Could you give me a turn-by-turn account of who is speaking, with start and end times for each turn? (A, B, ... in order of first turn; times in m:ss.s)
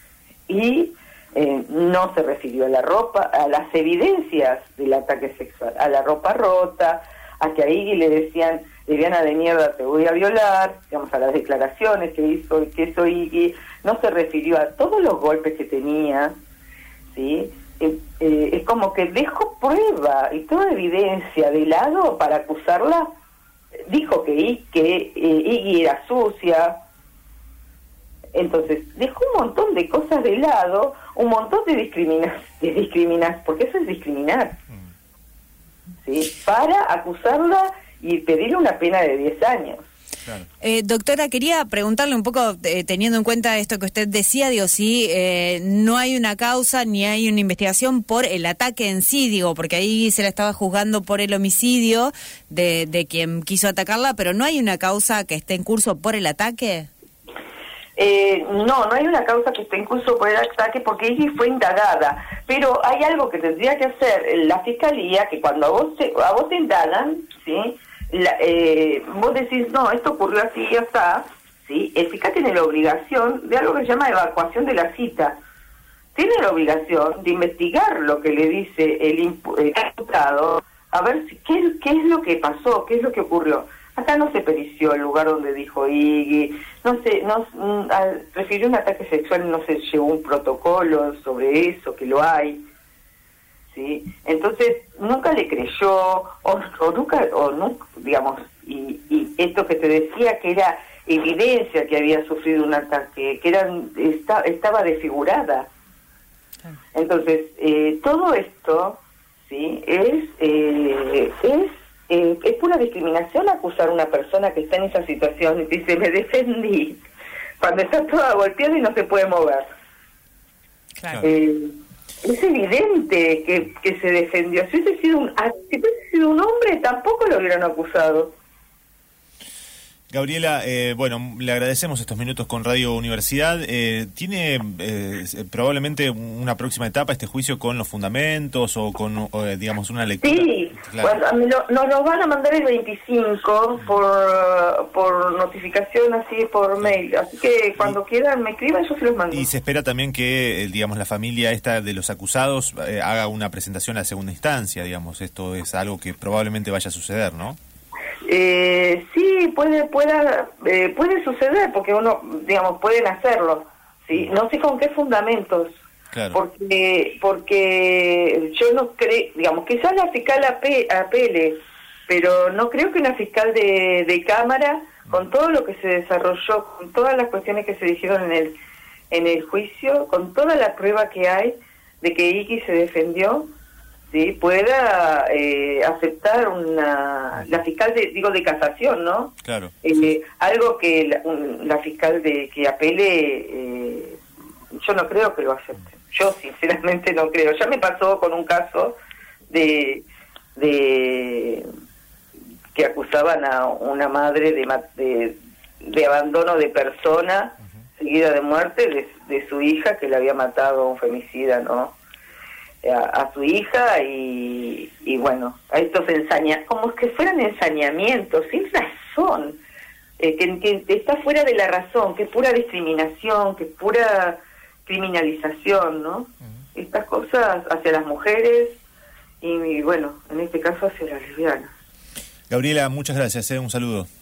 0:00.5-0:16.4 A
0:17.1-0:23.1 A
0:23.9-0:26.8 A
0:28.3-0:34.6 A
0:36.0-0:39.9 A
0:40.6-0:56.9 B
0:58.0-1:15.4 A
1:16.1-1:32.6 A
1:33.7-1:45.7 A
1:46.9-1:57.0 A
1:57.6-1:59.7 A
2:01.0-2:01.2 B
2:01.2-2:08.3 A
2:10.1-2:21.1 C
2:20.2-2:29.5 A
2:29.3-2:37.6 C
2:38.3-2:45.8 A
2:46.1-2:46.4 C
2:46.3-2:58.6 A
2:59.1-3:03.5 A
3:04.1-3:14.2 A
3:09.4-3:09.7 C
3:14.8-3:19.0 A
3:19.5-3:20.0 A
3:20.6-3:21.6 A
3:22.7-3:32.0 A
3:32.8-3:39.6 A
3:40.2-3:48.8 A
3:49.4-3:51.7 A
3:52.5-3:54.1 C